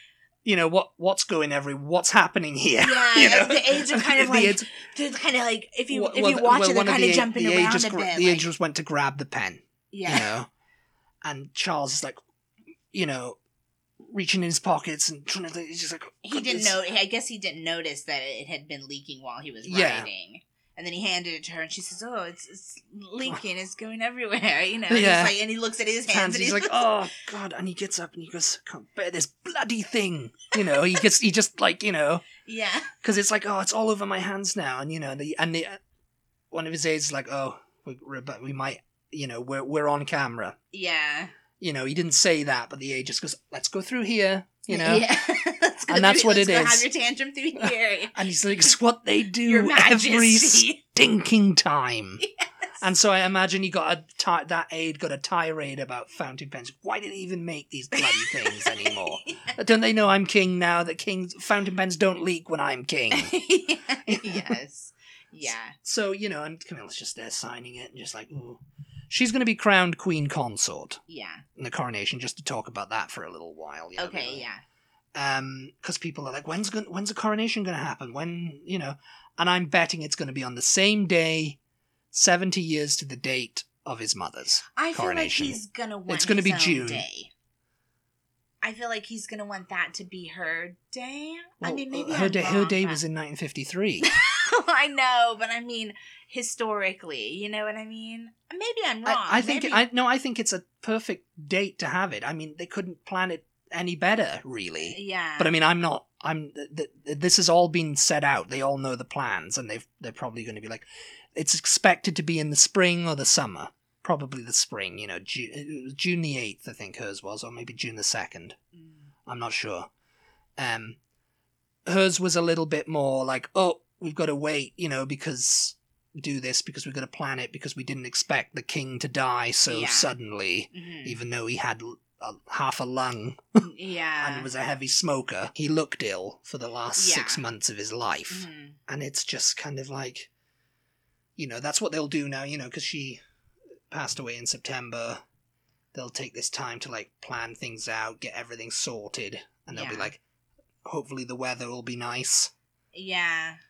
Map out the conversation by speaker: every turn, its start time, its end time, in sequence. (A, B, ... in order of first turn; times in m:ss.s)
0:00.4-0:04.7 A
0:02.8-0:08.5 B
0:05.9-0:10.5 A
0:09.9-0:10.3 B
0:11.2-0:12.2 A
0:12.9-0:13.4 A
0:14.0-0:16.8 A
0:16.2-0:26.9 B
0:19.6-0:20.1 A
0:24.9-0:25.4 A
0:26.1-0:32.3 A
0:32.4-0:32.9 B
0:33.0-0:35.8 A
0:36.5-0:40.6 A
0:40.7-0:41.3 B
0:41.6-0:45.1 A
0:44.7-0:48.3 B
0:45.9-0:46.9 A
0:47.6-0:52.2 A
0:49.4-0:50.8 B
0:52.8-1:03.3 A
0:58.0-0:59.6 B
1:03.1-1:05.8 B
1:04.1-1:04.6 A
1:05.8-1:11.0 A
1:11.1-1:11.4 B
1:11.6-1:14.4 A
1:14.0-1:14.6 B
1:15.2-1:21.6 A
1:22.1-1:27.0 A
1:24.8-1:27.3 B
1:28.6-1:33.0 B
1:31.6-1:34.1 A
1:34.0-1:39.8 B
1:39.0-1:58.6 A
1:44.8-1:45.6 B
1:59.3-1:59.9 A
2:00.6-2:01.0 A
2:01.9-2:20.3 A
2:09.7-2:10.1 B
2:10.7-2:11.2 B
2:13.6-2:14.5 B
2:17.0-2:17.4 B
2:18.3-2:18.8 B
2:21.4-2:23.2 A
2:23.9-2:25.2 A
2:25.9-2:30.2 A
2:29.7-2:30.1 B
2:30.8-2:32.5 A
2:32.9-2:33.6 B